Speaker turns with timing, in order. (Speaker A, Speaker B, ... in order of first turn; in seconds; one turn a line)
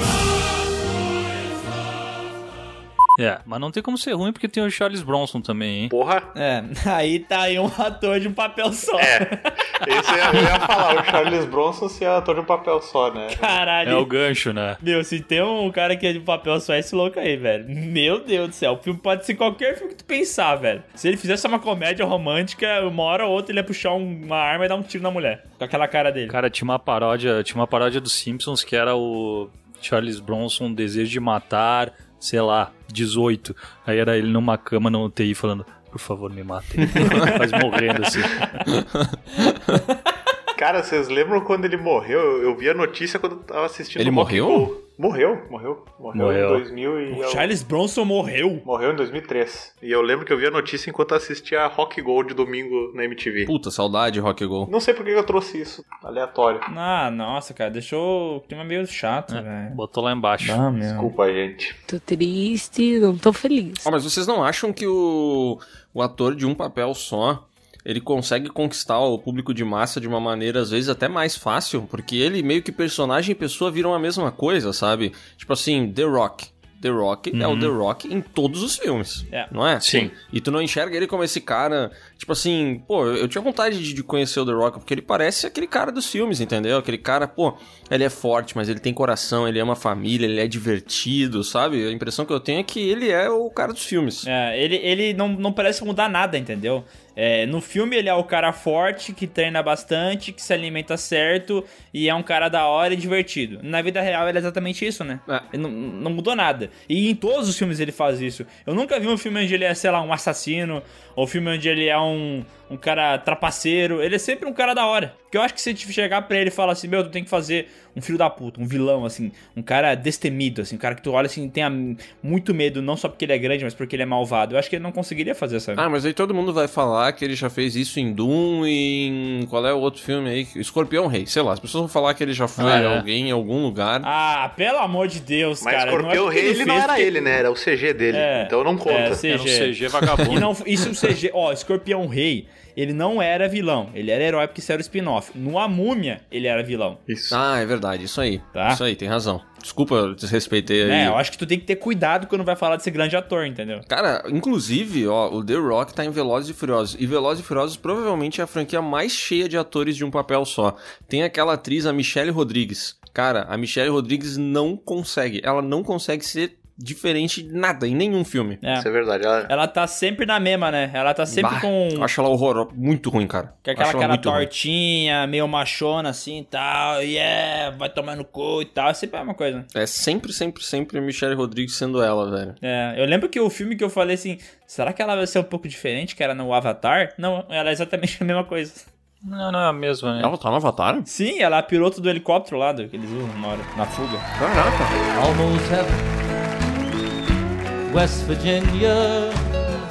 Speaker A: 3.2-5.9
Speaker B: 5.9-6.3
Speaker C: 6.3-10.4
Speaker B: 9.0-13.6
Speaker C: 13.3-14.1
Speaker A: 13.8-14.8
Speaker C: 14.8-26.4
Speaker A: 26.3-38.5
Speaker D: 36.8-37.4
Speaker C: 37.0-37.3
Speaker D: 38.7-39.8
Speaker B: 40.6-47.5
Speaker D: 44.0-44.7
Speaker A: 46.1-46.6
Speaker C: 47.1-48.6
Speaker B: 48.6-53.5
Speaker D: 53.5-54.7
Speaker B: 54.7-56.7
Speaker C: 56.7-59.8
Speaker A: 59.3-60.6
Speaker C: 60.4-61.1
Speaker B: 60.9-61.8
Speaker E: 61.9-63.9
Speaker D: 63.8-94.3
Speaker A: 77.3-77.7
Speaker A: 79.8-80.1
Speaker C: 94.2-125.8
Speaker D: 125.8-134.1
Speaker A: 132.6-133.1
Speaker C: 134.0-137.2
Speaker B: 135.6-139.2
Speaker C: 138.1-147.0
Speaker A: 139.3-140.5
Speaker B: 147.1-147.4
Speaker D: 147.3-151.2
Speaker C: 148.5-148.8
Speaker C: 150.8-153.9
Speaker D: 153.9-168.6
Speaker C: 168.6-168.9
Speaker B: 168.7-169.5
Speaker C: 169.5-172.1
Speaker D: 171.3-174.5
Speaker C: 173.7-179.7
Speaker D: 179.7-182.6
Speaker C: 182.6-188.9
Speaker A: 189.2-190.3
Speaker D: 190.2-191.1
Speaker C: 191.1-194.3
Speaker D: 194.4-195.0
Speaker F: 195.1-196.1
Speaker F: 197.9-199.6